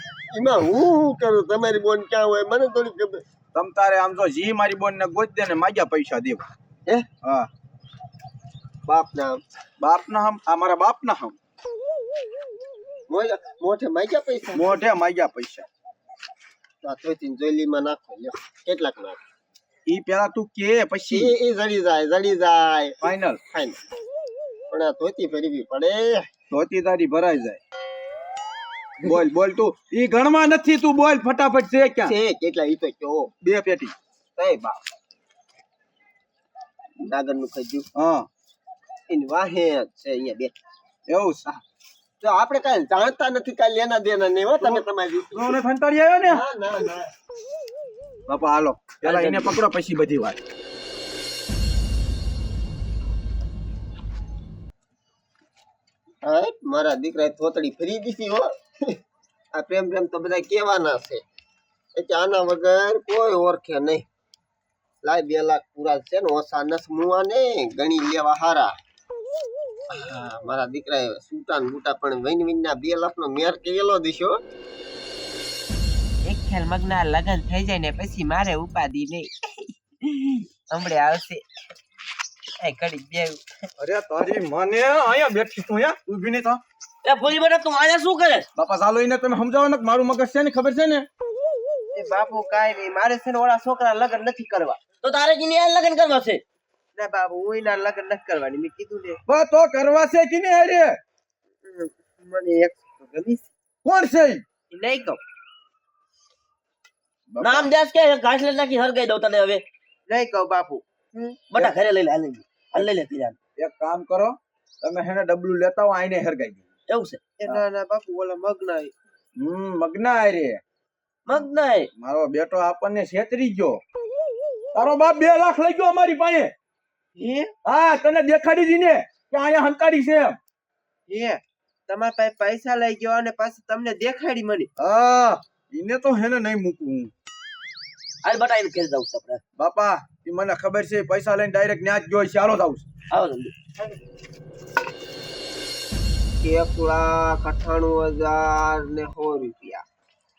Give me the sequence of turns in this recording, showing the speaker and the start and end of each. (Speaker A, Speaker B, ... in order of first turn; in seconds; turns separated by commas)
Speaker A: 0.3-3.2, Speaker B: 3.5-6.5, Speaker B: 7.2-7.5, Speaker A: 8.8-9.4, Speaker B: 9.8-11.3, Speaker A: 13.1-14.8, Speaker B: 14.5-15.7, Speaker A: 16.8-19.2, Speaker B: 19.9-21.2, Speaker A: 21.1-23.0, Speaker B: 23.0-23.4, Speaker A: 23.5-23.8, Speaker A: 24.7-26.3, Speaker B: 26.5-27.6, Speaker B: 29.1-32.1, Speaker A: 32.0-33.3, Speaker B: 33.4-33.9, Speaker A: 34.4-34.8, Speaker A: 37.0-37.9, Speaker B: 37.9-38.3, Speaker A: 39.1-40.5, Speaker B: 41.1-41.6, Speaker A: 42.2-45.6, Speaker B: 45.3-46.4, Speaker A: 46.2-47.1, Speaker B: 48.3-50.4, Speaker C: 49.0-49.5, Speaker A: 56.2-59.0, Speaker A: 59.5-61.2, Speaker A: 62.0-64.0, Speaker A: 65.0-68.7, Speaker A: 69.9-74.4, Speaker D: 76.2-81.4, Speaker D: 82.6-83.5, Speaker B: 83.8-86.6, Speaker C: 87.0-88.5, Speaker B: 88.5-91.1, Speaker D: 91.9-94.8, Speaker C: 95.0-96.4, Speaker D: 97.0-99.2, Speaker B: 99.2-100.9, Speaker D: 101.6-103.5, Speaker B: 103.8-104.4, Speaker D: 104.7-105.2, Speaker B: 107.3-107.6, Speaker C: 107.4-109.6, Speaker D: 110.1-111.4, Speaker C: 111.5-113.3, Speaker B: 113.6-116.6, Speaker C: 116.9-117.2, Speaker D: 117.4-118.9, Speaker B: 119.3-120.6, Speaker C: 121.2-121.9, Speaker B: 122.0-123.8, Speaker B: 124.7-126.5, Speaker D: 127.2-127.5, Speaker B: 127.6-130.4, Speaker D: 131.1-134.7, Speaker B: 134.8-137.1, Speaker C: 138.2-139.4, Speaker B: 139.6-142.8, Speaker C: 143.1-143.5, Speaker A: 146.4-149.8